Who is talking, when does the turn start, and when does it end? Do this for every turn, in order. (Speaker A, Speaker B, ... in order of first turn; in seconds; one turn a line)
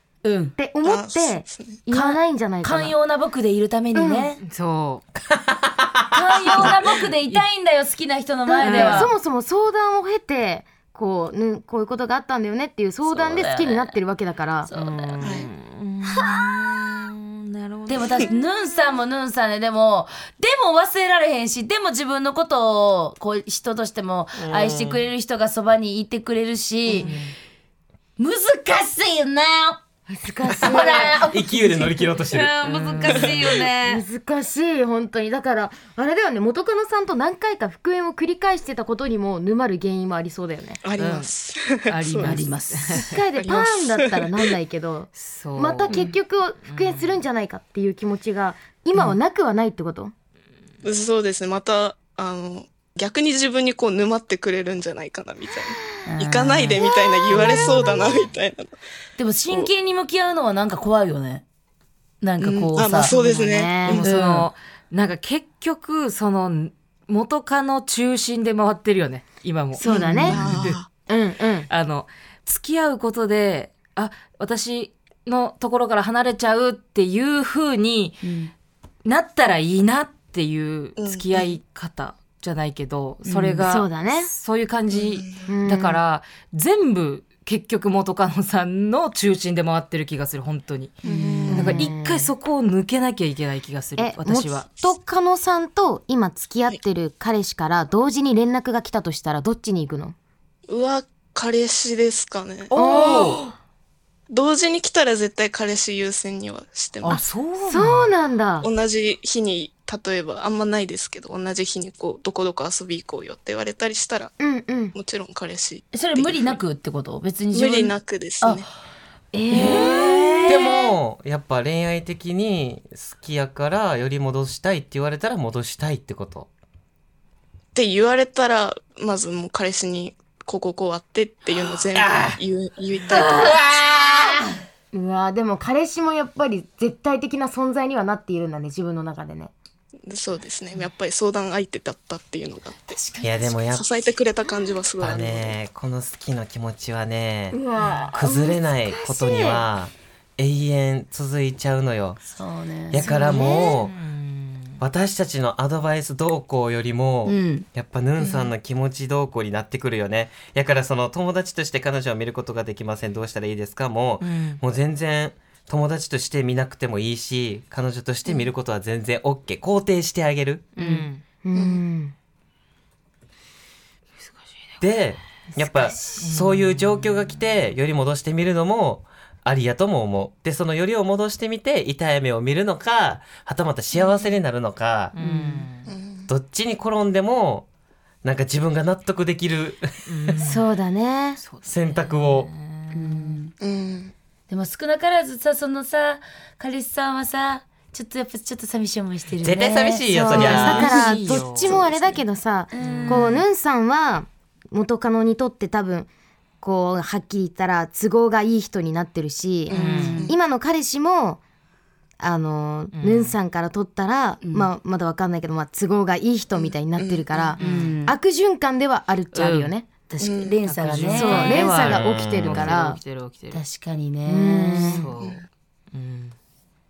Speaker A: 0.2-0.5
Speaker B: 0.6-3.0
Speaker C: 0.8-1.9
Speaker A: 1.9-4.4
Speaker B: 4.0-4.3
Speaker D: 4.4-5.0
Speaker E: 5.8-6.8
Speaker A: 6.1-9.1
Speaker B: 8.5-14.7
Speaker D: 8.6-9.1
Speaker A: 13.1-14.0
Speaker A: 14.7-15.4
Speaker D: 14.7-18.2
Speaker C: 15.2-15.5
Speaker A: 17.9-27.1
Speaker E: 24.4-25.0
Speaker B: 26.9-27.1
Speaker D: 26.9-27.3
Speaker A: 28.2-29.8
Speaker B: 30.1-31.6
Speaker E: 30.5-32.5
Speaker A: 30.5-34.0
Speaker D: 32.6-33.6
Speaker B: 33.8-40.8
Speaker C: 40.8-44.5
Speaker D: 41.0-41.3
Speaker D: 41.9-43.2
Speaker A: 42.2-42.9
Speaker B: 42.9-50.1
Speaker D: 45.1-46.0
Speaker D: 46.6-47.2
Speaker C: 50.8-58.8
Speaker A: 56.0-56.8
Speaker A: 57.4-57.7
Speaker A: 59.2-61.4
Speaker A: 62.2-63.1
Speaker C: 62.4-64.1
Speaker B: 63.0-64.0
Speaker D: 63.9-70.8
Speaker A: 63.9-64.5
Speaker B: 69.8-70.5
Speaker C: 69.9-70.9
Speaker B: 71.1-71.7
Speaker D: 71.7-78.3
Speaker A: 78.2-78.5
Speaker D: 79.0-91.0
Speaker C: 81.0-81.5
Speaker B: 83.6-84.3
Speaker C: 84.9-85.5
Speaker B: 85.5-86.0
Speaker C: 91.0-91.9
Speaker A: 91.1-91.5
Speaker D: 91.5-94.7
Speaker B: 91.5-92.3
Speaker B: 94.0-100.2
Speaker C: 100.7-103.4
Speaker D: 102.7-103.4
Speaker B: 102.7-103.5
Speaker C: 104.3-107.2
Speaker D: 107.0-108.1
Speaker B: 107.1-108.7
Speaker C: 108.6-114.3
Speaker B: 114.4-115.0
Speaker C: 114.9-116.6
Speaker A: 115.9-118.7
Speaker C: 117.5-118.7
Speaker B: 119.3-120.5
Speaker A: 119.5-120.9
Speaker D: 119.5-120.4
Speaker E: 120.5-126.5
Speaker C: 127.8-133.7
Speaker A: 133.1-134.5
Speaker B: 134.9-139.5
Speaker C: 140.1-143.0
Speaker A: 142.9-143.5
Speaker E: 143.2-143.8
Speaker C: 143.7-145.6
Speaker E: 145.0-147.6
Speaker B: 147.6-149.7
Speaker A: 147.7-148.1
Speaker E: 148.1-152.2
Speaker A: 152.2-153.2
Speaker E: 152.9-153.9
Speaker B: 153.0-153.8
Speaker D: 153.4-154.8
Speaker E: 154.8-170.7
Speaker A: 157.2-157.7
Speaker D: 164.2-164.6
Speaker D: 170.8-171.2
Speaker A: 170.8-171.1
Speaker B: 171.4-172.1
Speaker C: 171.6-171.8
Speaker E: 174.8-185.1
Speaker D: 176.2-177.0
Speaker D: 185.1-185.9
Speaker A: 185.2-185.7
Speaker C: 185.9-186.3
Speaker E: 186.3-187.7
Speaker E: 188.2-189.9
Speaker D: 190.1-190.7
Speaker B: 190.4-191.4
Speaker D: 191.4-193.3
Speaker E: 191.7-192.5
Speaker A: 192.9-193.5
Speaker C: 193.6-194.1
Speaker A: 194.5-200.7
Speaker E: 199.4-201.1
Speaker B: 200.1-206.1
Speaker D: 200.3-202.2
Speaker A: 202.7-203.4
Speaker D: 202.8-203.4
Speaker B: 206.6-211.4
Speaker C: 209.7-210.4
Speaker D: 209.7-210.2
Speaker A: 209.8-210.3
Speaker B: 212.2-219.9
Speaker D: 212.9-213.4
Speaker A: 214.4-214.7
Speaker C: 216.5-217.6
Speaker D: 217.6-217.9
Speaker A: 217.6-218.2
Speaker D: 219.3-219.7
Speaker A: 220.1-221.7
Speaker C: 220.2-220.6
Speaker D: 220.7-223.6
Speaker B: 221.1-223.0
Speaker E: 221.8-222.7
Speaker A: 223.5-225.0
Speaker B: 224.3-225.1
Speaker D: 224.8-226.4
Speaker C: 225.1-225.4